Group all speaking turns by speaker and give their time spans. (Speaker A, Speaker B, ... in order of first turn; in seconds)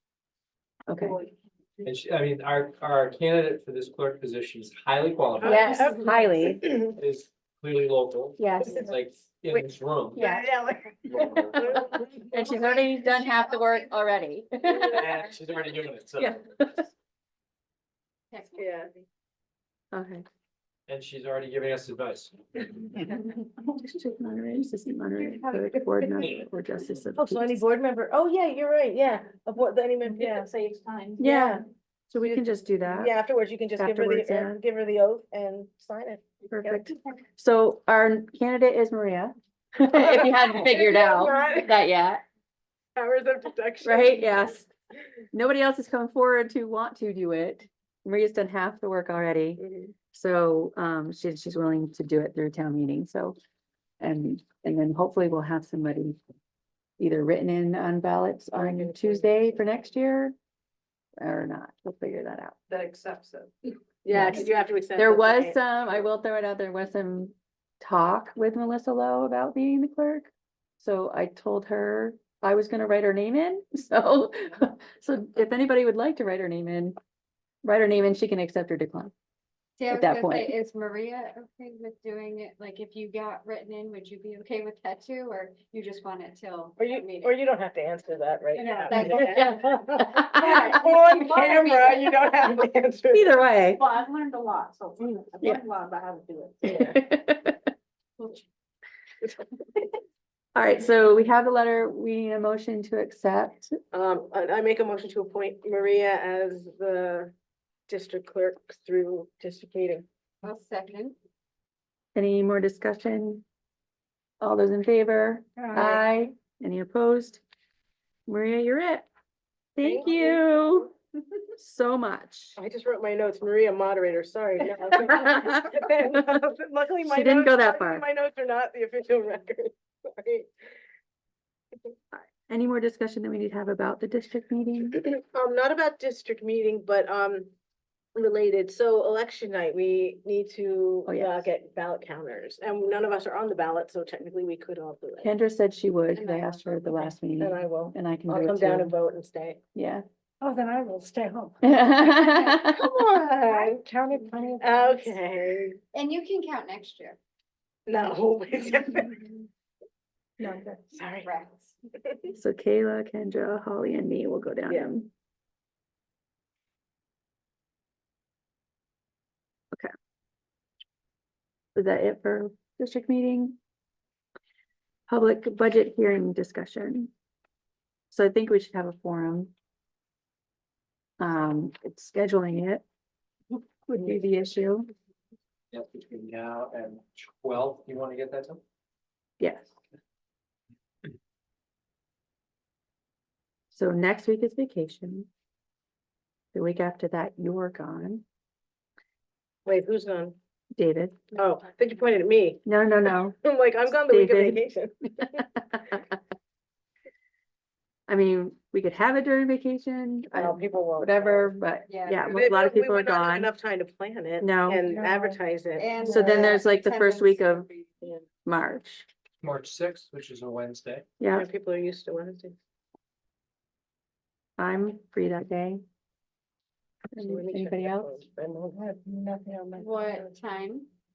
Speaker A: 0.9-1.2, 5.4-6.8, 8.4-8.9, 10.2-10.5, 12.2-15.3, 16.2-16.9, 19.9-20.2, 23.7-27.6, 31.2-33.1, 33.8-34.5, 36.5-42.2, 43.8-44.7, 45.3-53.4, 54.0-56.2, 57.0-60.3, 61.2-62.6, 64.1-77.0, 77.6-79.1, 79.9-80.5, 88.9-90.8, 93.1-93.8, 96.6-97.6, 100.5-103.8, 112.1-113.4, 114.4-117.4, 118.3-119.1, 119.8-120.9, 121.6-122.6, 124.9-126.0, 127.0-128.0, 132.1-135.0, 141.1-141.5, 145.2-148.9, 149.7-150.0, 151.6-152.8, 162.3-165.1, 171.7-173.6, 175.1-177.1, 178.1-179.5, 181.2-182.8, 183.9-184.9, 189.4-189.7, 193.7-195.3, 196.5-198.2, 200.8-201.3, 202.7-203.4, 204.1-204.6, 205.2-206.2, 208.1-213.5, 214.4-214.9, 216.0-217.7, 218.4-219.1, 221.2-221.4, 224.6-225.8, 227.1-228.1
Speaker B: 1.8-5.7, 7.0-10.2, 11.1-11.6, 14.8-16.7, 20.9-22.9, 185.7-188.6, 219.4-221.1
Speaker C: 5.4-7.0, 10.2-12.4, 18.6-18.9, 27.2-30.5, 31.2-31.6, 32.2-36.8, 39.9-41.7, 43.0-44.4, 49.6-49.9, 58.5-59.3, 64.0-66.0, 86.8-93.3, 96.6-96.9, 103.9-107.3, 107.9-110.1, 119.8-120.5, 122.6-130.5, 135.0-137.5, 138.1-145.3, 147.4-149.6, 152.6-153.8, 154.6-155.8, 157.9-159.4, 160.8-161.3, 199.6-200.3, 201.3-202.6, 203.3-205.4, 210.3-211.5, 212.3-216.6, 221.3-222.6, 227.1-230.2
Speaker D: 18.3-19.0, 79.8-87.3, 88.5-92.5, 93.8-96.8, 110.4-111.2, 115.6-116.0, 146.1-147.1, 155.9-157.2, 161.2-161.7, 211.9-212.2, 215.8-217.8, 229.8-230.9
Speaker E: 30.7-31.1, 62.7-63.5, 94.4-94.8, 95.3-96.5, 150.4-151.5, 153.7-154.7, 160.4-160.8